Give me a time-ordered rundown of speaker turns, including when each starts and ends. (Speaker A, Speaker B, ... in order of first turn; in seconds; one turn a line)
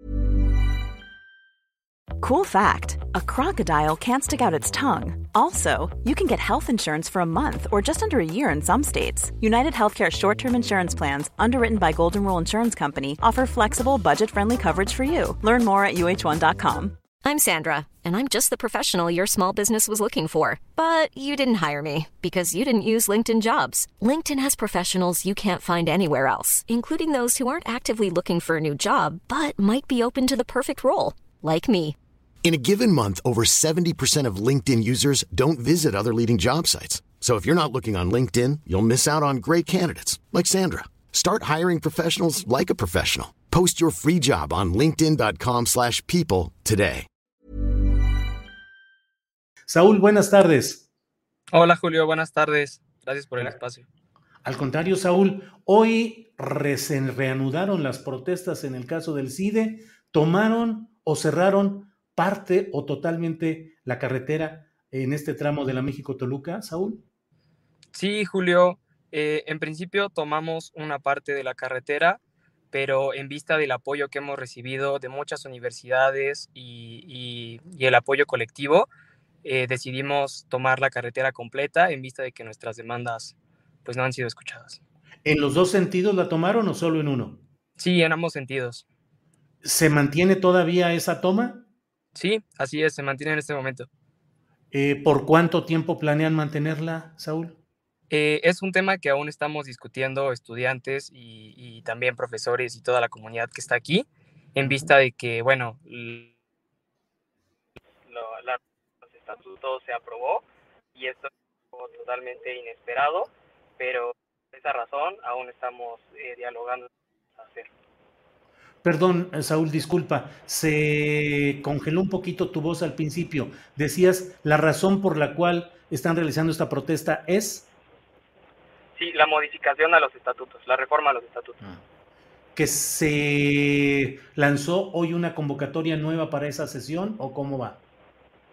Speaker A: 2.2-16.9
Speaker B: 17.2-31.9
Speaker C: 32.4-47.1
Speaker D: 49.7-50.9
Speaker E: 51.5-53.9
Speaker D: 54.4-67.0
Speaker E: 67.9-72.2
Speaker E: 72.7-78.9
Speaker E: 79.4-84.8
Speaker D: 85.2-87.4
Speaker E: 87.8-88.8
Speaker D: 89.6-91.6
Speaker E: 92.1-93.9
Speaker D: 94.7-97.6
Speaker E: 98.1-106.3
Speaker D: 104.6-104.9
Speaker E: 108.0-117.7
Speaker D: 118.8-127.7
Speaker E: 128.9-131.6
Speaker D: 132.5-137.8